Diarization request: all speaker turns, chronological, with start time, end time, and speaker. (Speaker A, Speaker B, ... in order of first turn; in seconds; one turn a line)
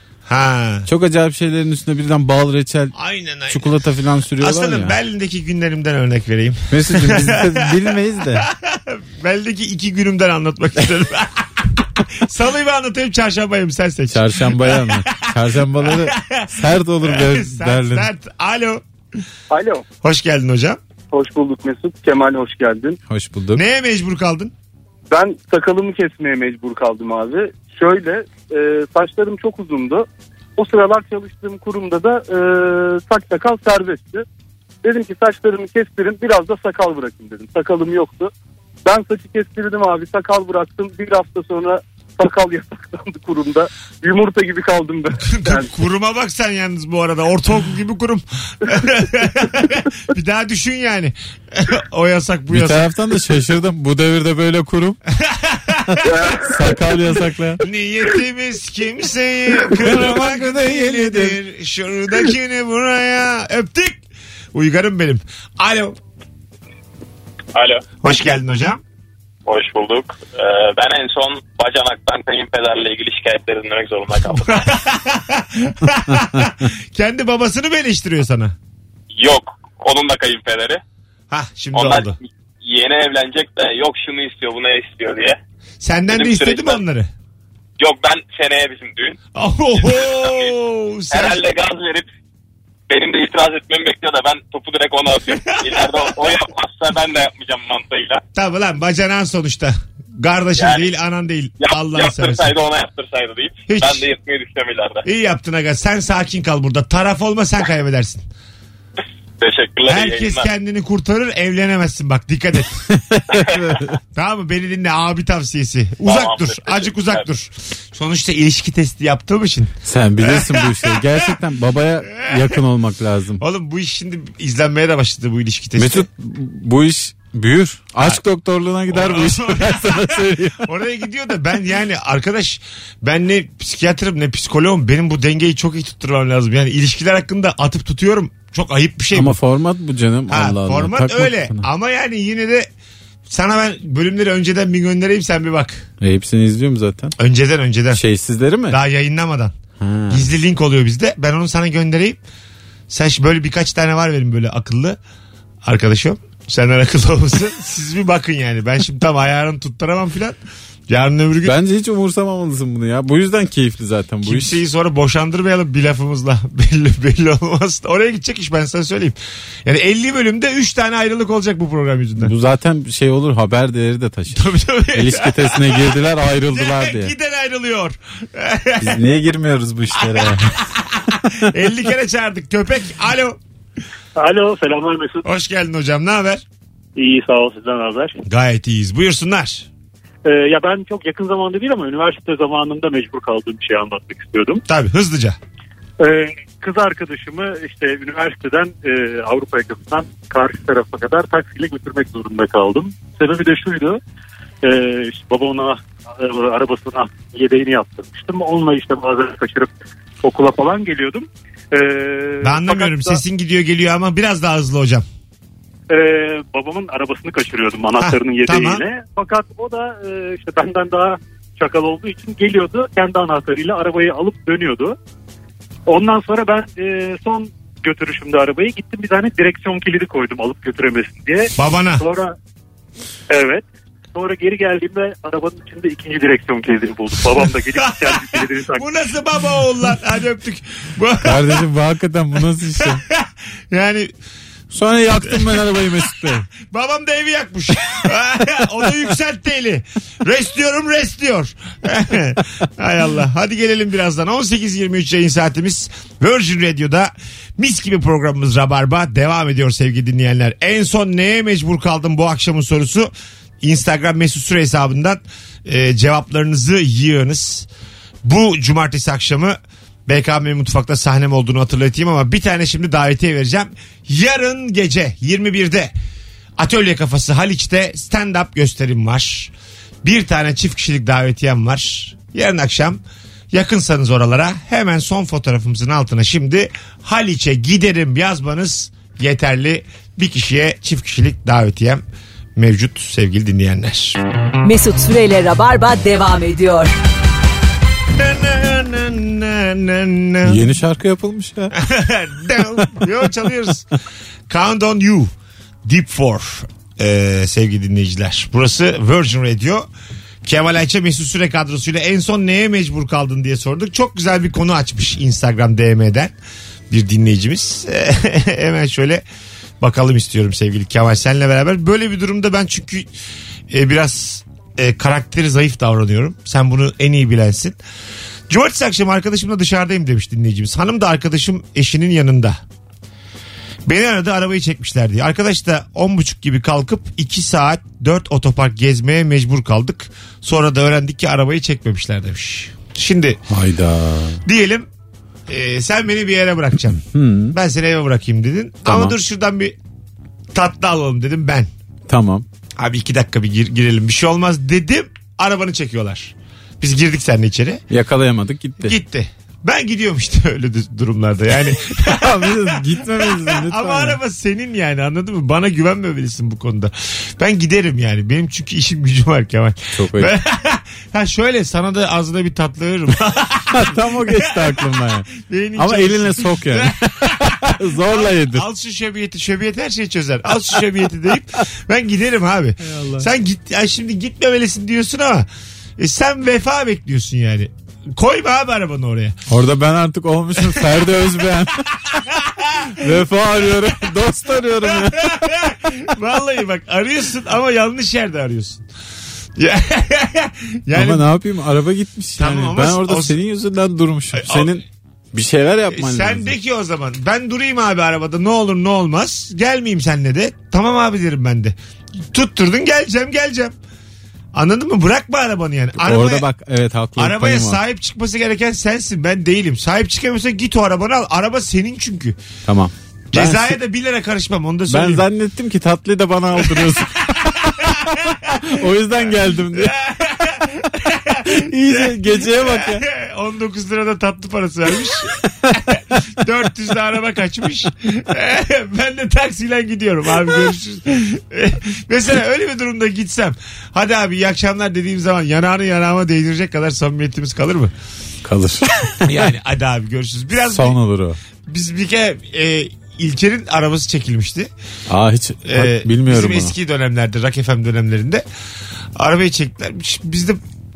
Speaker A: 0.3-0.9
Speaker B: 0.8-2.9
Speaker A: 2.9-3.7
Speaker B: 3.5-5.0
Speaker A: 4.4-18.8
Speaker B: 6.7-8.5
Speaker B: 14.1-18.1
Speaker C: 19.5-19.8
Speaker A: 20.0-20.8
Speaker C: 21.1-23.0
Speaker B: 23.1-23.6
Speaker A: 23.5-24.5
Speaker C: 25.1-34.2
Speaker C: 34.8-38.3
Speaker C: 38.8-45.7
Speaker A: 45.2-52.9
Speaker B: 52.5-55.0
Speaker A: 55.1-56.1
Speaker C: 56.1-56.4
Speaker B: 56.3-57.6
Speaker A: 57.6-64.0
Speaker B: 59.8-61.4
Speaker A: 64.5-66.0
Speaker D: 67.5-67.8
Speaker A: 68.0-68.8
Speaker D: 69.5-74.7
Speaker A: 74.2-78.5
Speaker B: 76.1-76.5
Speaker D: 79.1-80.8
Speaker A: 81.3-82.2
Speaker D: 81.7-85.4
Speaker A: 85.8-87.1
Speaker D: 86.1-86.8
Speaker D: 87.8-89.2
Speaker A: 89.3-91.4
Speaker D: 89.8-90.5
Speaker D: 91.1-92.1
Speaker D: 92.9-98.2
Speaker A: 95.5-96.1
Speaker A: 98.3-102.5
Speaker D: 100.6-100.9
Speaker D: 101.6-105.0
Speaker A: 103.7-104.0
Speaker A: 105.0-108.2
Speaker D: 109.4-110.5
Speaker A: 109.9-112.8
Speaker B: 112.9-114.0
Speaker D: 113.3-113.6
Speaker A: 114.1-121.3
Speaker D: 116.0-117.2
Speaker B: 119.8-123.4
Speaker A: 122.2-122.6
Speaker A: 123.4-126.1
Speaker B: 125.8-130.7
Speaker A: 128.9-139.4
Speaker B: 139.1-141.7
Speaker A: 140.3-142.7
Speaker A: 143.3-145.9
Speaker B: 146.0-147.1
Speaker A: 147.2-148.0
Speaker B: 147.9-148.8
Speaker A: 148.7-149.5
Speaker B: 149.8-150.3
Speaker A: 150.1-152.2
Speaker A: 152.9-155.0
Speaker A: 155.6-160.4
Speaker A: 160.9-161.6
Speaker B: 161.4-164.6
Speaker A: 164.2-172.3
Speaker B: 172.2-177.1
Speaker A: 174.3-179.0
Speaker B: 178.8-180.6
Speaker A: 179.9-183.4
Speaker B: 181.2-181.5
Speaker E: 184.2-185.2
Speaker A: 185.2-186.4
Speaker E: 186.9-188.2
Speaker A: 188.3-189.7
Speaker E: 190.2-194.6
Speaker A: 194.7-195.4
Speaker E: 196.0-204.0
Speaker E: 204.6-209.7
Speaker E: 210.2-213.2
Speaker A: 212.4-215.0
Speaker E: 215.9-224.9
Speaker A: 218.0-218.8
Speaker E: 225.9-232.3
Speaker A: 231.6-232.0
Speaker E: 233.3-238.8
Speaker A: 237.8-241.6
Speaker B: 241.2-243.0
Speaker A: 242.8-244.1
Speaker B: 244.7-246.4
Speaker A: 245.2-245.8
Speaker A: 246.6-263.1
Speaker A: 263.6-267.7
Speaker A: 268.2-275.9
Speaker A: 276.6-279.5
Speaker A: 280.0-292.0
Speaker A: 292.6-294.2
Speaker F: 294.6-296.9
Speaker A: 298.1-300.6
Speaker B: 300.4-301.7
Speaker A: 301.7-303.8
Speaker A: 304.5-305.3
Speaker A: 305.9-309.9
Speaker A: 310.4-316.3
Speaker A: 316.9-319.2
Speaker A: 319.8-323.1
Speaker A: 323.7-327.8
Speaker A: 328.5-332.6
Speaker A: 333.9-343.4
Speaker B: 343.5-344.4
Speaker A: 344.4-344.9
Speaker A: 345.5-349.8
Speaker B: 347.0-347.6
Speaker B: 348.9-349.2
Speaker A: 350.5-351.7
Speaker B: 352.1-352.4
Speaker A: 352.8-357.8
Speaker B: 357.9-359.0
Speaker A: 358.8-389.4
Speaker B: 362.1-364.2
Speaker B: 369.9-370.3
Speaker B: 373.7-378.6
Speaker B: 382.8-383.2
Speaker B: 389.5-391.9
Speaker A: 390.6-390.9
Speaker A: 392.1-393.9
Speaker B: 393.0-395.7
Speaker A: 394.8-398.8
Speaker A: 399.6-401.2
Speaker B: 400.9-406.5
Speaker A: 402.4-403.4
Speaker A: 404.3-404.7
Speaker A: 405.9-411.8
Speaker A: 412.3-413.7
Speaker A: 414.5-416.5
Speaker B: 416.0-417.8
Speaker A: 417.2-422.4
Speaker B: 422.6-423.8
Speaker A: 423.3-425.2
Speaker B: 424.9-429.9
Speaker A: 426.6-428.6
Speaker A: 429.1-447.9
Speaker B: 431.4-433.0
Speaker B: 448.4-449.3
Speaker A: 449.2-451.0
Speaker B: 450.7-451.4
Speaker A: 451.6-454.7
Speaker B: 455.1-456.7
Speaker A: 455.6-458.4
Speaker A: 459.1-460.6